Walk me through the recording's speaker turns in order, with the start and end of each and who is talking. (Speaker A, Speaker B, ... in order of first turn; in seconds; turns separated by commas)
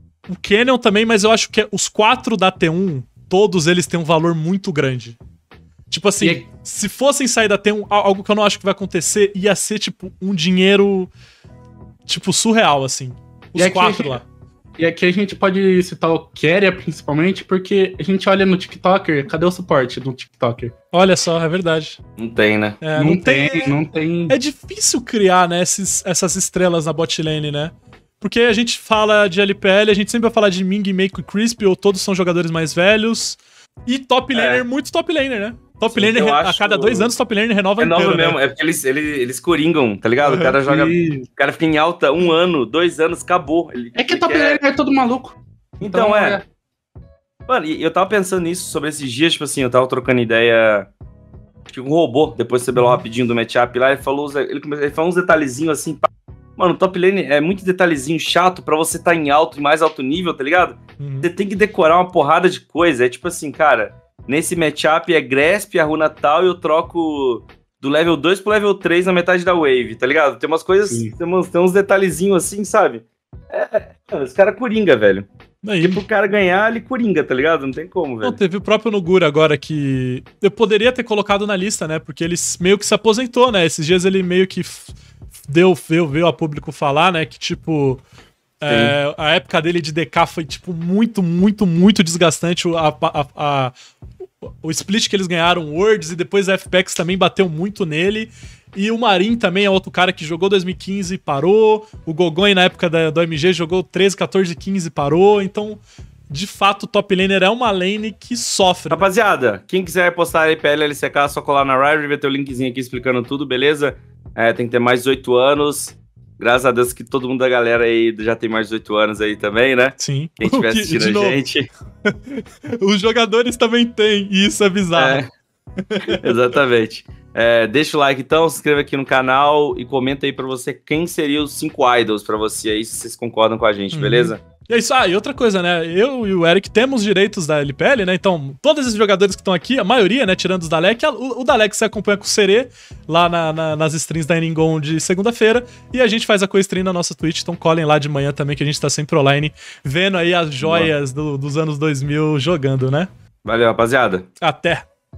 Speaker A: 0.3-5.2, Speaker A: 5.9-11.1, Speaker A: 12.1-14.2, Speaker B: 13.6-14.2, Speaker B: 14.8-20.7, Speaker A: 20.9-22.0, Speaker C: 22.2-22.8, Speaker A: 22.8-23.7, Speaker B: 22.9-24.3, Speaker A: 24.3-38.4, Speaker C: 34.3-34.6, Speaker C: 35.9-37.1, Speaker C: 37.8-44.6, Speaker A: 40.2-40.6, Speaker B: 40.6-41.3, Speaker B: 43.9-46.4, Speaker C: 45.8-46.4, Speaker C: 47.5-50.9, Speaker C: 51.7-75.3, Speaker A: 52.8-53.0, Speaker A: 61.0-61.3, Speaker B: 70.9-71.1, Speaker A: 75.6-76.0, Speaker C: 75.8-78.4, Speaker A: 78.2-84.9, Speaker A: 85.4-88.0, Speaker A: 88.6-93.7, Speaker C: 88.7-89.0, Speaker A: 94.4-109.0, Speaker C: 108.9-121.7, Speaker A: 120.0-121.4, Speaker A: 122.0-125.2, Speaker C: 124.9-125.3, Speaker A: 125.8-126.2, Speaker C: 126.1-134.4, Speaker A: 133.9-153.1, Speaker C: 150.6-150.9, Speaker C: 153.4-154.3, Speaker A: 154.4-154.8